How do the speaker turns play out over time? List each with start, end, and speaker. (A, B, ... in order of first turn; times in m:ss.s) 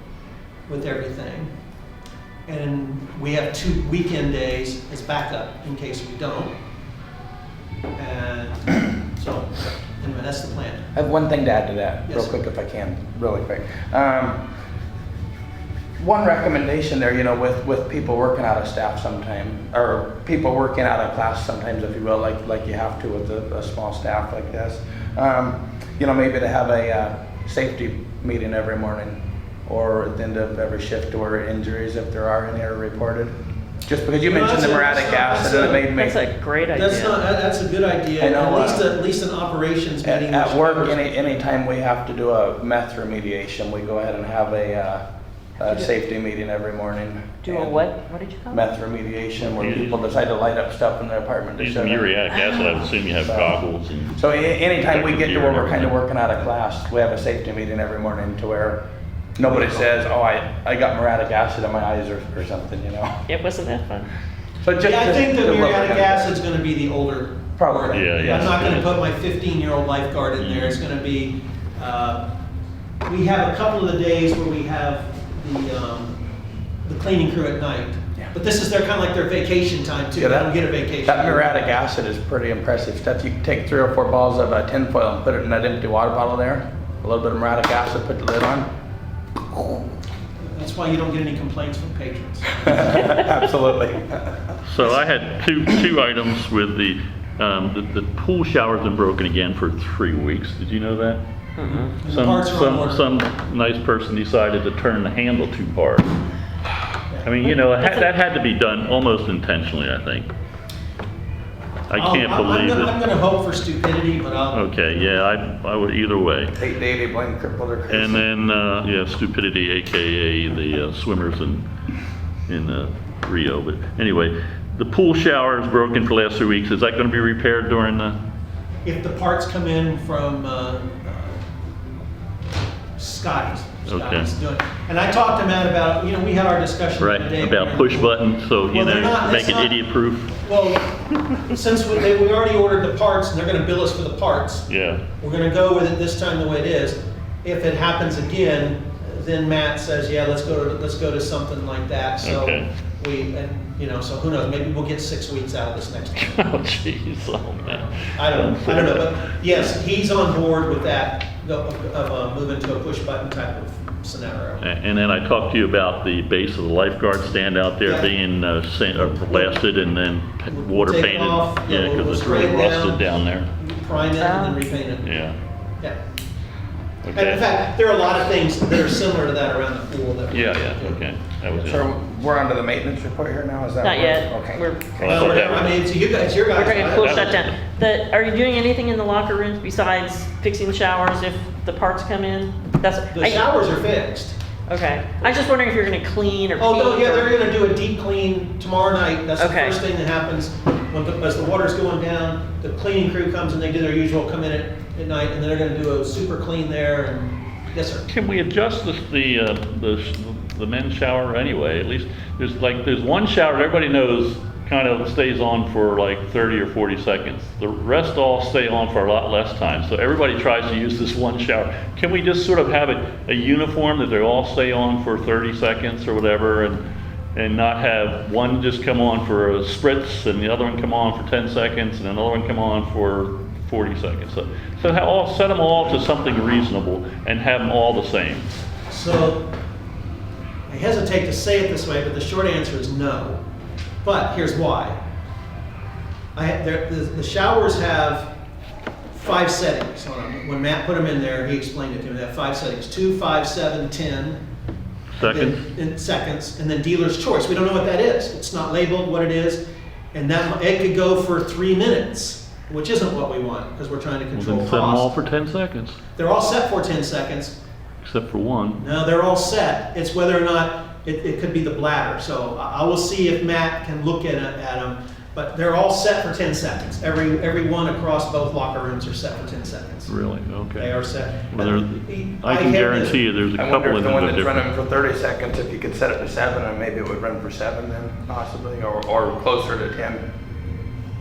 0:00.7-0:01.5 A
0:02.5-0:06.5 A
0:08.0-0:10.9 A
0:10.9-0:14.4 B
0:12.1-0:12.3 A
0:16.0-0:33.3 B
0:33.9-0:36.2 B
0:34.2-0:35.9 A
0:35.9-0:37.2 C
0:36.7-0:41.3 A
0:38.2-0:38.9 B
0:40.0-0:45.0 B
0:45.6-0:47.9 B
0:47.4-0:48.6 C
0:48.5-0:52.1 B
0:49.6-0:50.0 D
0:51.6-0:54.2 D
0:53.2-0:53.6 B
0:54.1-0:58.8 B
0:54.9-0:56.0 D
0:59.4-1:03.2 B
0:59.4-0:59.9 A
1:03.3-1:04.1 C
1:04.6-1:06.3 B
1:04.8-1:12.3 A
1:07.6-1:08.6 B
1:07.9-1:09.0 D
1:10.4-1:10.8 D
1:13.0-1:16.2 A
1:16.8-1:21.7 A
1:20.2-1:28.7 B
1:30.4-1:32.8 A
1:32.6-1:34.5 B
1:34.6-1:41.2 D
1:41.6-1:41.8 C
1:41.6-1:43.0 A
1:42.0-1:46.1 D
1:47.2-1:50.3 D
1:51.9-1:53.0 D
1:52.0-1:54.7 A
1:54.5-1:56.5 D
1:56.6-1:58.2 B
1:57.9-2:01.6 D
2:02.5-2:08.2 D
2:08.8-2:11.4 A
2:13.0-2:18.2 A
2:13.8-2:14.3 D
2:17.0-2:20.4 D
2:18.7-2:19.8 A
2:20.4-2:24.7 A
2:24.7-2:25.0 D
2:25.2-2:36.6 A
2:32.2-2:32.7 D
2:36.2-2:39.5 D
2:37.6-2:44.6 A
2:44.6-2:53.5 D
2:47.8-2:48.1 A
2:49.0-2:49.6 A
2:50.5-2:55.2 A
2:54.2-2:54.6 C
2:55.0-2:55.3 D
2:57.0-2:57.4 D
2:57.1-3:01.0 A
3:00.3-3:01.8 D
3:01.6-3:04.6 B
3:03.8-3:05.7 C
3:05.0-3:05.8 D
3:05.0-3:07.4 A
3:06.5-3:13.4 C
3:06.7-3:07.5 D
3:13.1-3:14.4 A
3:14.7-3:17.3 C
3:16.6-3:28.1 A
3:19.4-3:19.8 C
3:28.1-3:46.8 D
3:47.3-3:58.4 D
3:58.9-3:59.5 A
4:00.7-4:03.4 A
4:04.0-4:05.0 A
4:06.3-4:08.3 A
4:09.1-4:14.4 A
4:15.1-4:15.6 D
4:15.2-4:19.6 A
4:20.1-4:25.1 A
4:24.3-4:26.0 D
4:26.2-4:27.6 A
4:28.0-4:28.8 D
4:28.8-4:40.1 A
4:40.1-4:44.7 D
4:40.8-4:43.2 A
4:43.6-4:50.2 B